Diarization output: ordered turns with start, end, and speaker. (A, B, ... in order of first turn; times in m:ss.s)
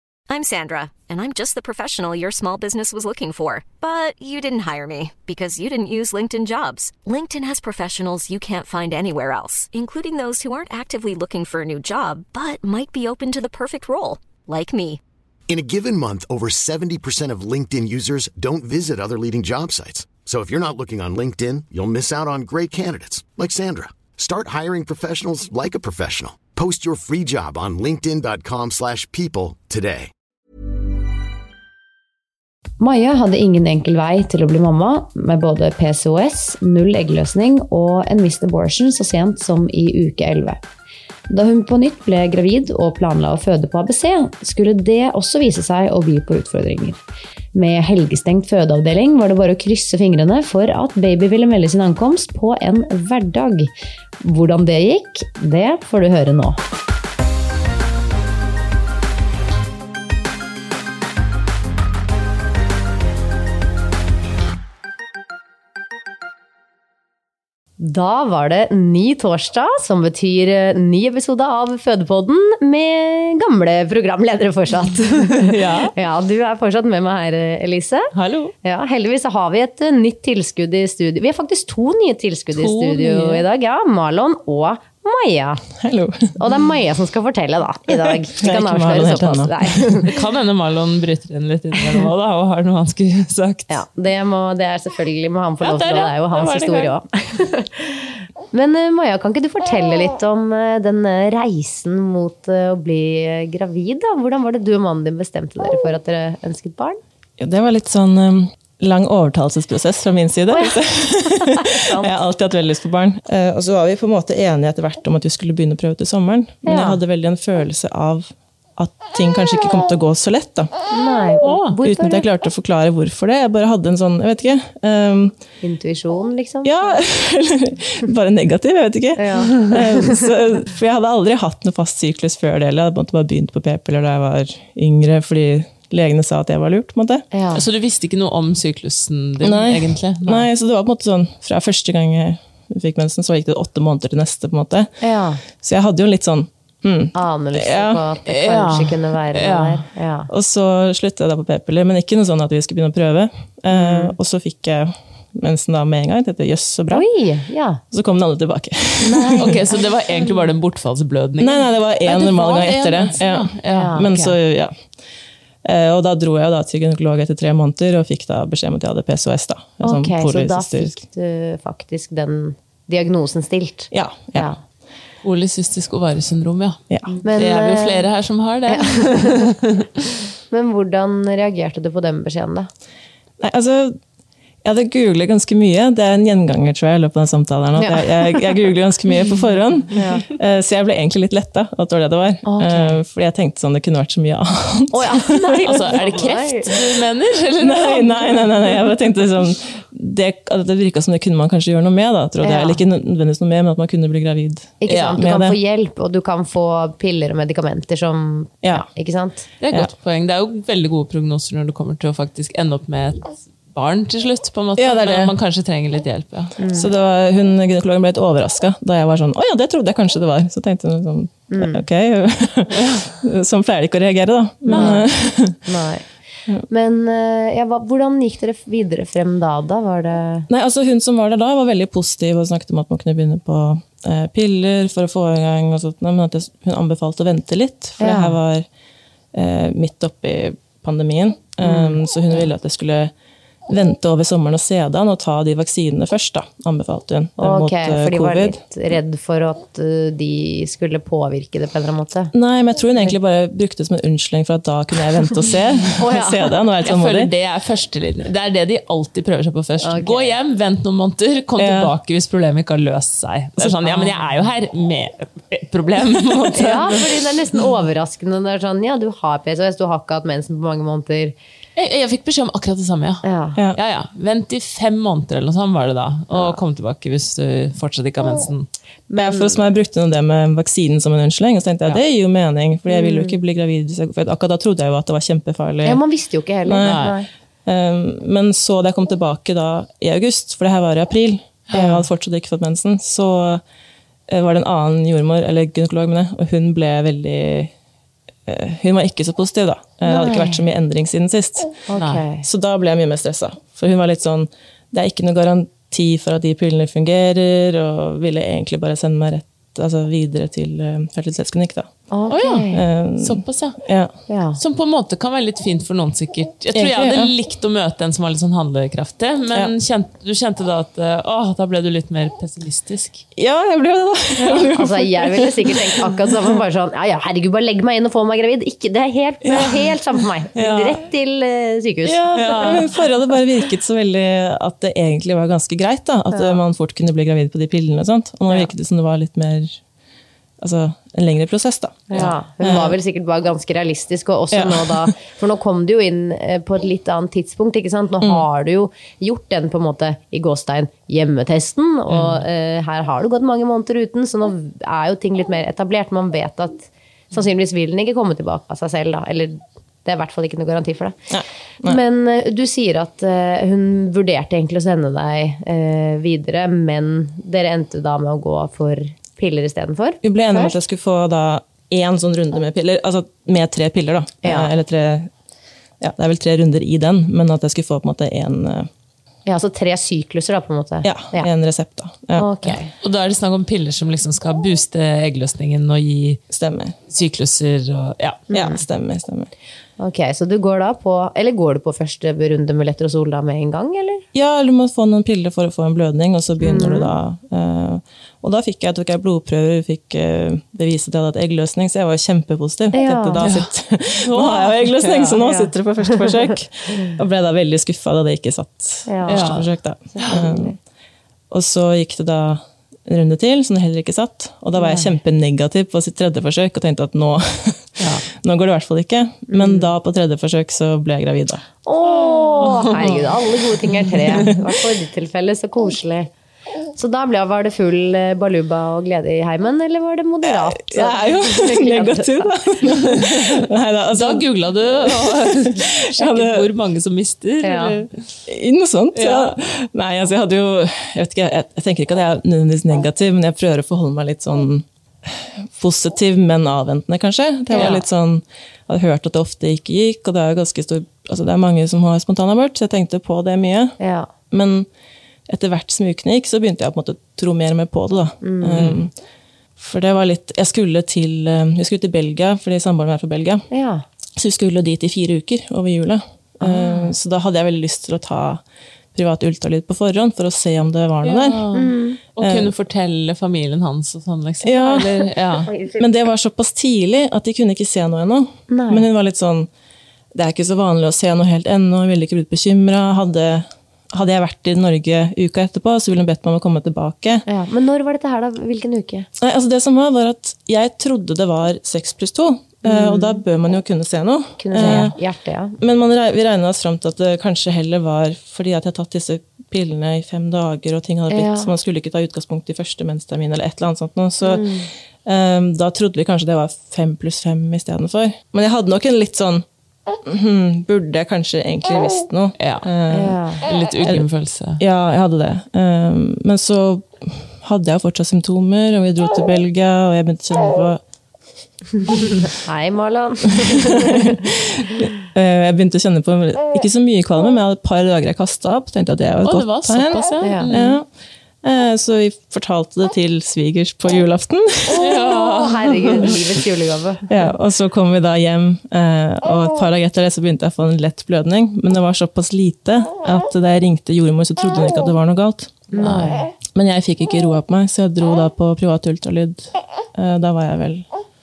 0:00.3-0:15.0 A
0:15.5-0:30.1 B
0:32.8-0:40.6 C
0:41.3-0:47.0 C
0:47.5-0:56.6 C
1:07.8-1:18.1 C
1:15.4-1:15.9 D
1:18.1-1:18.5 D
1:18.6-1:25.6 C
1:22.5-1:23.4 D
1:25.8-1:26.4 E
1:26.4-1:30.1 C
1:28.0-1:29.7 E
1:30.0-1:33.8 D
1:33.7-1:47.0 C
1:35.6-1:36.9 D
1:47.4-2:00.7 E
1:50.5-1:50.8 C
1:51.4-1:52.1 C
1:56.6-1:57.0 C
2:00.9-2:02.2 C
2:01.4-2:01.7 D
2:01.8-2:05.3 E
2:05.6-2:07.0 C
2:06.6-2:17.2 E
2:09.2-2:10.2 C
2:17.3-2:17.6 C
2:17.5-2:20.5 D
2:19.4-2:24.9 E
2:25.0-2:25.4 C
2:25.5-2:28.0 E
2:27.1-2:30.3 C
2:28.3-2:29.8 D
2:30.3-2:37.0 E
2:33.7-2:34.1 C
2:36.9-2:37.8 C
2:37.9-2:39.6 E
2:39.0-2:39.8 C
2:39.4-2:44.4 D
2:41.4-2:44.7 E
2:43.7-2:44.0 C
2:45.6-2:51.0 E
2:49.8-2:54.6 C
2:53.9-2:54.5 E
2:55.2-2:56.8 D
2:56.9-2:57.2 E
2:57.2-2:58.1 C
2:57.3-2:59.8 D
2:58.7-2:59.4 C
3:00.5-3:02.7 C
3:03.4-3:04.0 E
3:04.6-3:15.8 E
3:07.8-3:08.2 C
3:09.9-3:10.2 C
3:12.4-3:13.0 C
3:14.9-3:16.7 C
3:15.6-3:18.7 D
3:17.6-3:25.6 E
3:22.4-3:22.8 C
3:24.8-3:29.5 C
3:24.9-3:25.2 D
3:28.6-3:28.9 E
3:29.6-3:36.5 D
3:34.8-3:35.3 E
3:36.6-3:36.9 C
3:36.7-3:45.7 E
3:41.5-3:41.8 C
3:42.8-3:43.1 D
3:44.7-3:45.0 C
3:44.7-3:45.0 D
3:45.6-3:46.1 C
3:46.7-3:50.5 C
3:50.5-3:58.7 E
3:58.0-3:58.4 C
3:59.3-4:03.1 E
4:01.6-4:02.0 C
4:03.7-4:08.6 E
4:07.4-4:12.3 C
4:12.3-4:17.3 E
4:16.0-4:16.5 C
4:16.8-4:27.2 D
4:19.8-4:20.3 C
4:21.6-4:21.9 E
4:26.6-4:31.3 C
4:31.8-4:38.7 D
4:33.2-4:33.6 C
4:36.3-4:36.6 C
4:39.1-4:39.6 C
4:39.2-4:46.0 E
4:42.9-4:43.4 C
4:45.8-4:47.3 C
4:46.6-4:47.1 E
4:46.8-4:47.2 D
4:47.6-4:53.6 E
4:51.7-4:52.0 D
4:54.3-4:57.7 E
4:58.4-5:01.8 E
5:00.1-5:00.6 C
5:01.9-5:02.4 C
5:02.0-5:02.2 D
5:02.4-5:11.9 E
5:12.1-5:12.8 C
5:12.3-5:12.7 D
5:12.7-5:14.1 E
5:13.2-5:13.8 D
5:14.3-5:14.6 C
5:14.6-5:23.2 D
5:16.7-5:17.3 E
5:23.4-5:26.1 E
5:24.5-5:32.8 C
5:29.5-5:29.7 D
5:30.5-5:31.0 D
5:32.0-5:39.8 E
5:32.4-5:32.9 D
5:36.3-5:36.6 C
5:40.6-5:43.0 E
5:42.1-6:01.2 C
5:44.5-5:45.1 E
5:52.1-5:52.4 D
6:01.3-6:02.0 E
6:01.8-6:10.7 C
6:10.2-6:15.3 E
6:14.4-6:14.7 C
6:16.0-6:18.9 E
6:19.4-6:21.5 C
6:21.0-6:22.6 E
6:22.4-6:22.9 C
6:23.0-6:26.4 D
6:26.5-6:27.0 E
6:27.1-6:28.4 D
6:28.5-6:28.8 C
6:28.5-6:29.5 E
6:30.0-6:34.2 C
6:34.3-6:50.8 E
6:36.6-6:37.1 C
6:42.9-6:43.4 C
6:43.4-6:45.4 D
6:45.4-6:46.3 C
6:49.1-6:49.6 C
6:49.3-6:49.6 D
6:50.1-6:50.8 C
6:51.5-7:01.6 E
6:54.8-6:55.0 C
6:58.0-6:58.2 D
6:59.5-6:59.9 C
7:01.8-7:06.3 C
7:02.1-7:03.3 D
7:07.0-7:12.5 C
7:10.4-7:16.6 E
7:13.2-7:13.6 D
7:14.1-7:18.2 D
7:17.6-7:17.9 C
7:18.5-7:34.0 E
7:19.1-7:19.6 D
7:27.7-7:28.0 C
7:34.0-7:34.3 C
7:34.5-7:34.9 E
7:35.5-7:39.1 E
7:38.4-7:38.8 C
7:39.8-7:43.6 E
7:43.7-7:44.0 C
7:44.4-7:48.6 E
7:46.6-7:47.1 C
7:49.1-7:51.6 E
7:51.2-7:55.7 D
7:51.7-7:52.2 C
7:52.4-7:52.7 E
7:54.6-7:55.1 E
7:54.9-7:56.0 C
7:56.0-7:59.7 E
7:58.7-7:59.0 C
8:00.3-8:07.4 E
8:07.5-8:09.3 C
8:09.4-8:15.1 E
8:12.8-8:13.4 C
8:14.6-8:15.8 C
8:15.8-8:24.7 E
8:21.3-8:21.7 C
8:24.4-8:24.9 C
8:25.2-8:29.6 E
8:30.2-8:33.4 E
8:32.6-8:32.9 D
8:33.1-8:33.6 C
8:33.6-8:34.8 D
8:34.0-8:34.2 E
8:34.8-8:41.0 E
8:42.2-8:44.4 C
8:44.3-8:51.1 E
8:49.4-8:51.0 D
8:50.4-8:50.7 C
8:51.6-8:55.1 E
8:55.0-8:56.4 D
8:55.6-8:57.3 C
8:57.3-9:05.9 E
9:05.9-9:06.5 C
9:06.0-9:06.4 D
9:06.7-9:11.1 E